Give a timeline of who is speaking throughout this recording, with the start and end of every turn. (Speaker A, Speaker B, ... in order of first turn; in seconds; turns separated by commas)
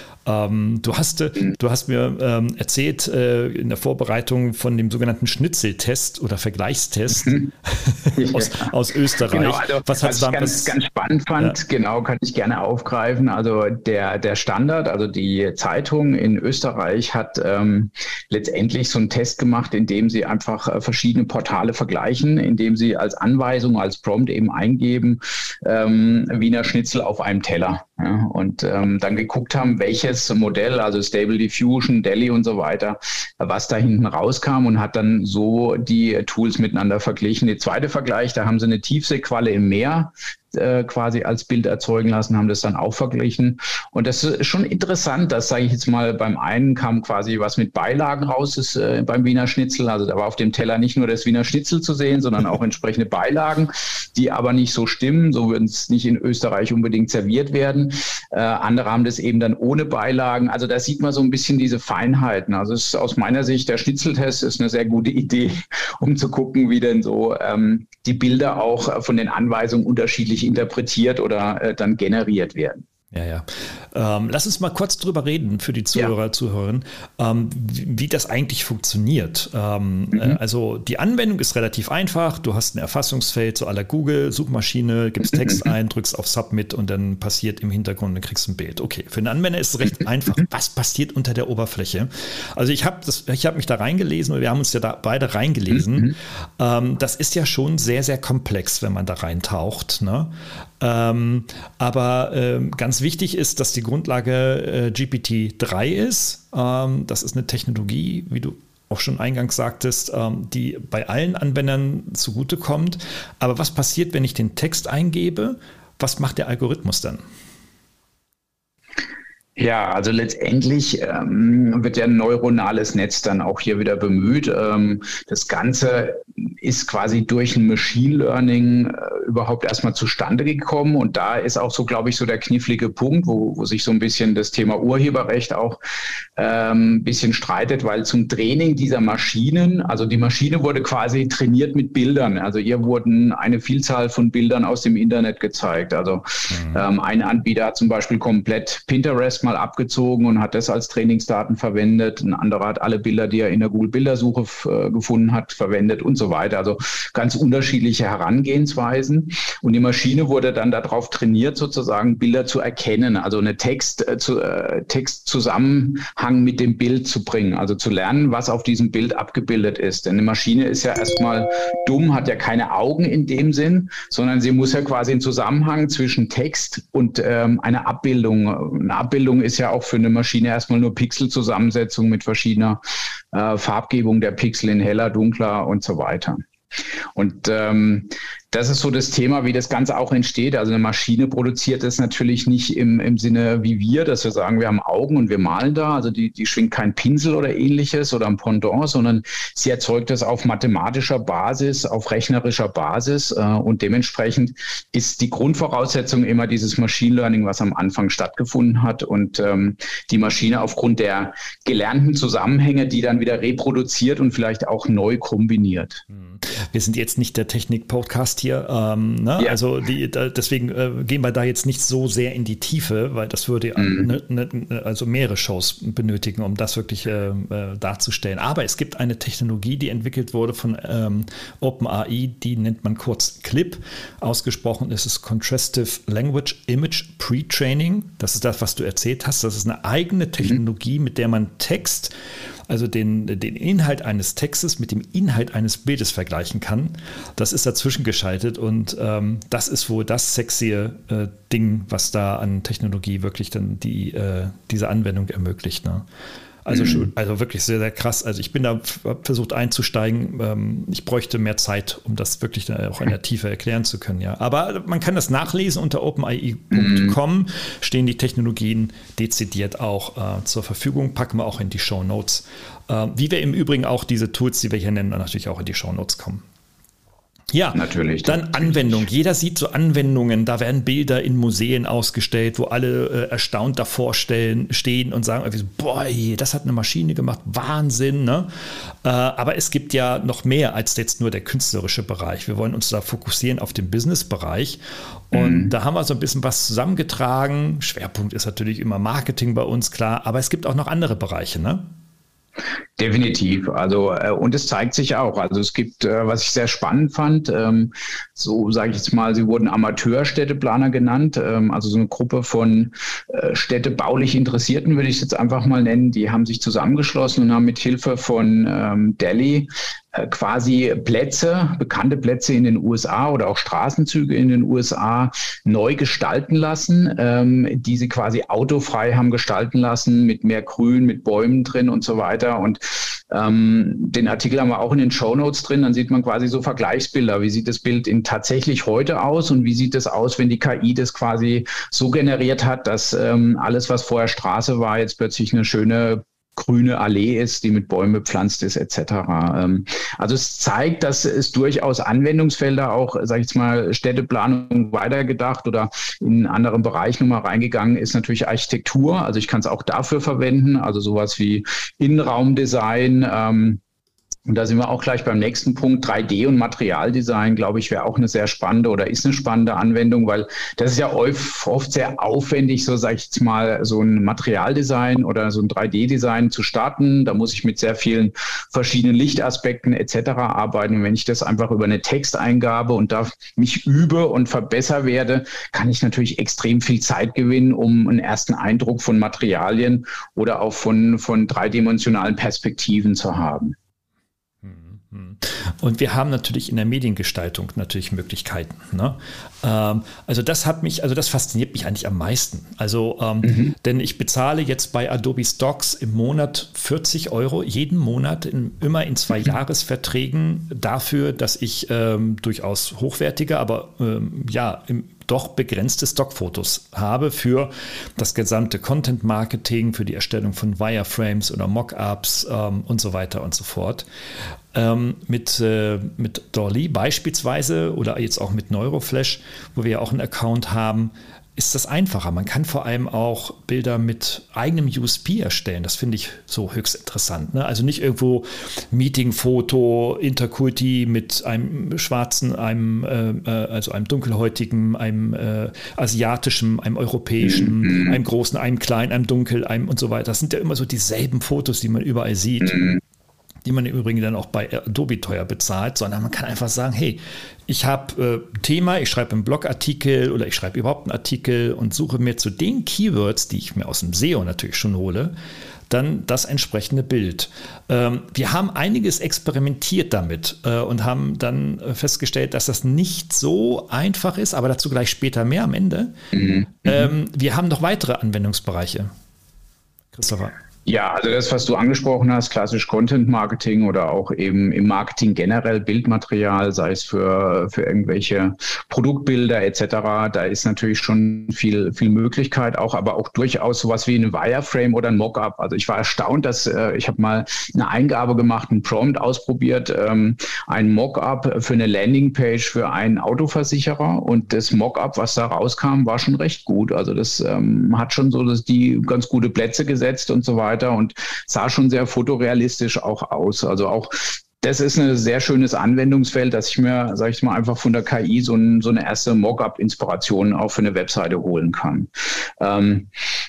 Speaker A: 0.2-10.8, Speaker B: 7.1-7.5, Speaker B: 8.1-8.7, Speaker B: 9.2-72.8, Speaker A: 73.1-117.2, Speaker B: 119.6-135.8, Speaker B: 136.3-182.8, Speaker A: 146.5-146.8, Speaker B: 183.3-186.4, Speaker B: 187.1-216.0, Speaker A: 216.1-242.1, Speaker B: 223.8-224.1, Speaker A: 242.7-256.1, Speaker A: 256.6-276.4, Speaker B: 256.7-257.1, Speaker B: 266.7-267.1, Speaker A: 277.5-301.9, Speaker B: 277.7-279.0, Speaker B: 295.3-295.7, Speaker B: 303.0-363.8, Speaker B: 364.5-393.8, Speaker A: 394.6-424.1, Speaker B: 403.4-403.7, Speaker A: 424.7-452.9, Speaker B: 447.4-448.2, Speaker B: 452.6-453.0, Speaker A: 453.6-465.3, Speaker A: 465.9-476.1, Speaker B: 476.3-477.1, Speaker A: 476.8-479.1, Speaker A: 480.1-480.6, Speaker B: 480.9-522.1, Speaker B: 522.6-523.1